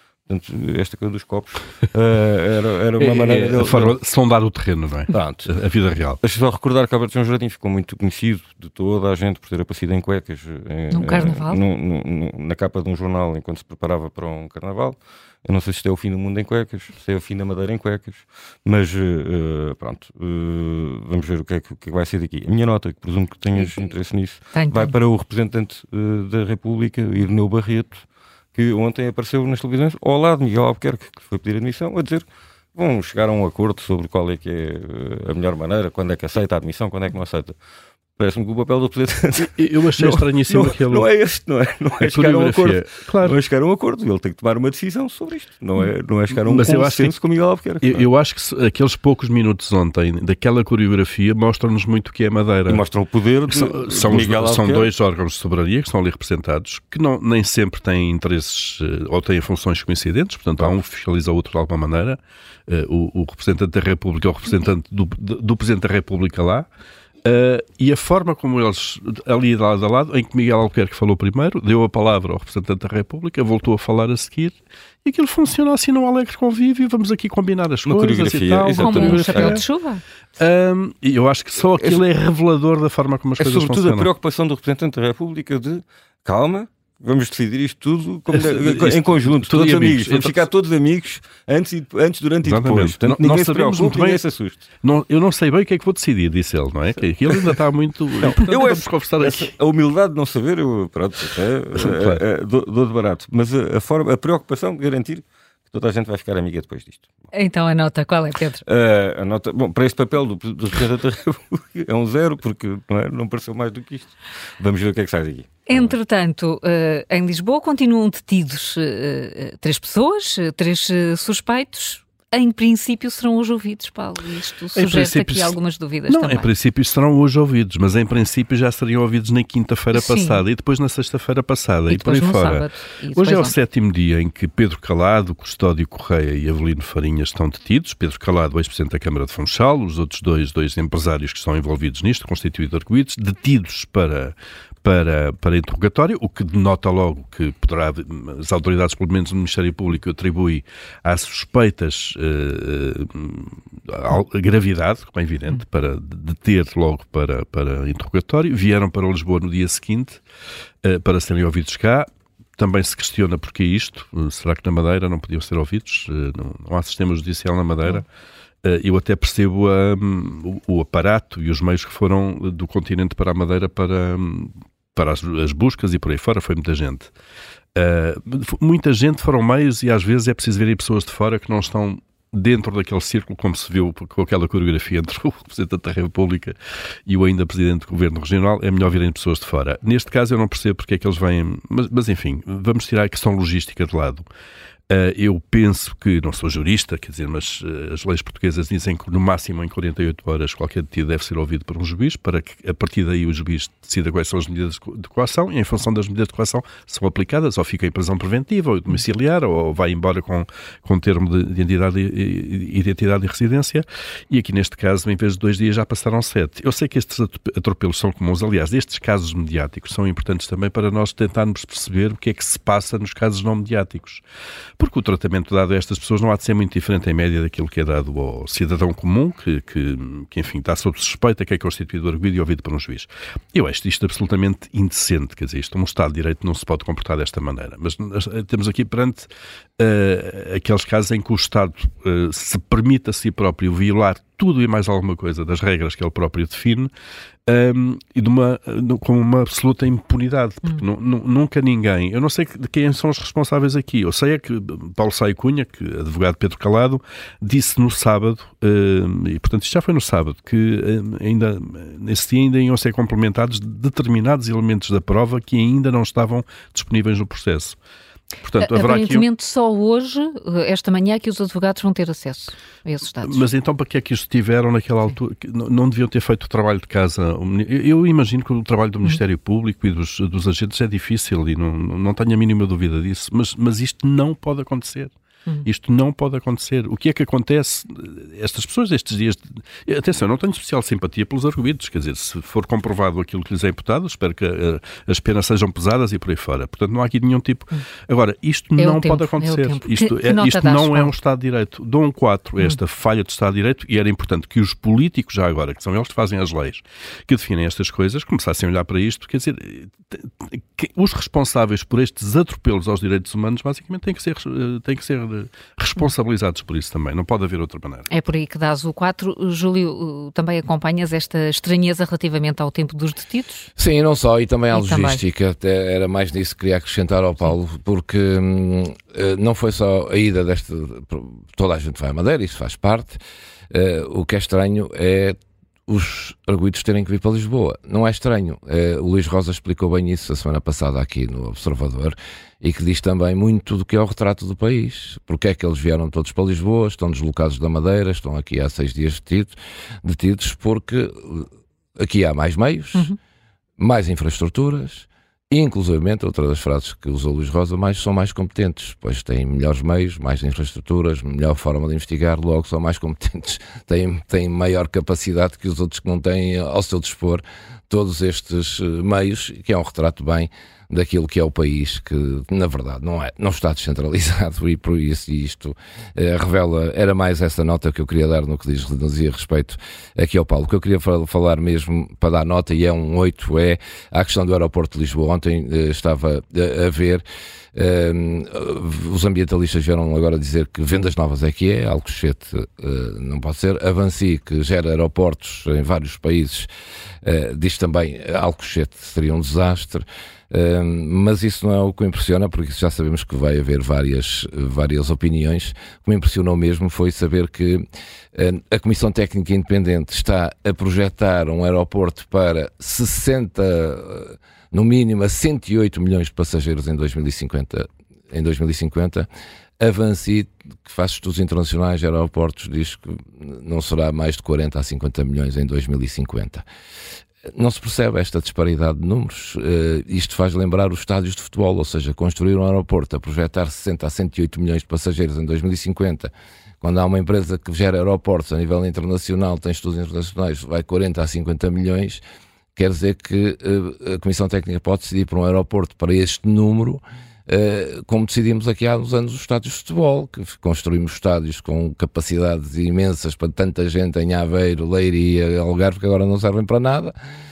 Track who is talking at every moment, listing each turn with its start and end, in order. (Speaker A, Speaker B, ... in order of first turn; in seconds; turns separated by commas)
Speaker A: 0.3-4.0, Speaker B: 3.0-6.2, Speaker A: 5.1-5.5, Speaker A: 6.2-37.5, Speaker C: 10.9-11.6, Speaker C: 23.5-23.9, Speaker C: 24.5-24.9, Speaker A: 38.2-48.1, Speaker B: 39.4-41.1, Speaker B: 42.0-43.4, Speaker B: 46.3-47.1, Speaker B: 47.8-52.8, Speaker A: 52.7-54.9, Speaker B: 53.5-66.7, Speaker B: 67.2-79.6, Speaker A: 77.8-79.6, Speaker C: 78.8-80.0, Speaker B: 80.4-84.1, Speaker A: 83.4-94.6, Speaker B: 88.3-90.4, Speaker B: 92.4-94.2, Speaker B: 94.8-99.5, Speaker A: 98.2-107.1, Speaker B: 101.7-102.2, Speaker C: 107.3-108.6, Speaker A: 108.6-115.9, Speaker C: 115.7-126.5, Speaker B: 124.7-160.2, Speaker C: 129.9-130.4, Speaker C: 131.9-133.6, Speaker B: 160.8-168.1, Speaker B: 168.6-177.1, Speaker B: 177.7-194.3, Speaker B: 194.9-224.2, Speaker B: 224.8-246.9, Speaker B: 247.4-267.8, Speaker B: 268.4-269.2, Speaker C: 268.6-273.5, Speaker B: 273.2-318.1, Speaker C: 298.8-301.1, Speaker C: 318.1-323.7, Speaker D: 323.8-333.2, Speaker C: 324.7-325.2, Speaker D: 333.7-353.1, Speaker D: 353.8-396.7, Speaker D: 397.2-419.3, Speaker D: 419.8-426.6, Speaker D: 427.5-436.3, Speaker D: 436.8-442.2, Speaker D: 442.8-457.1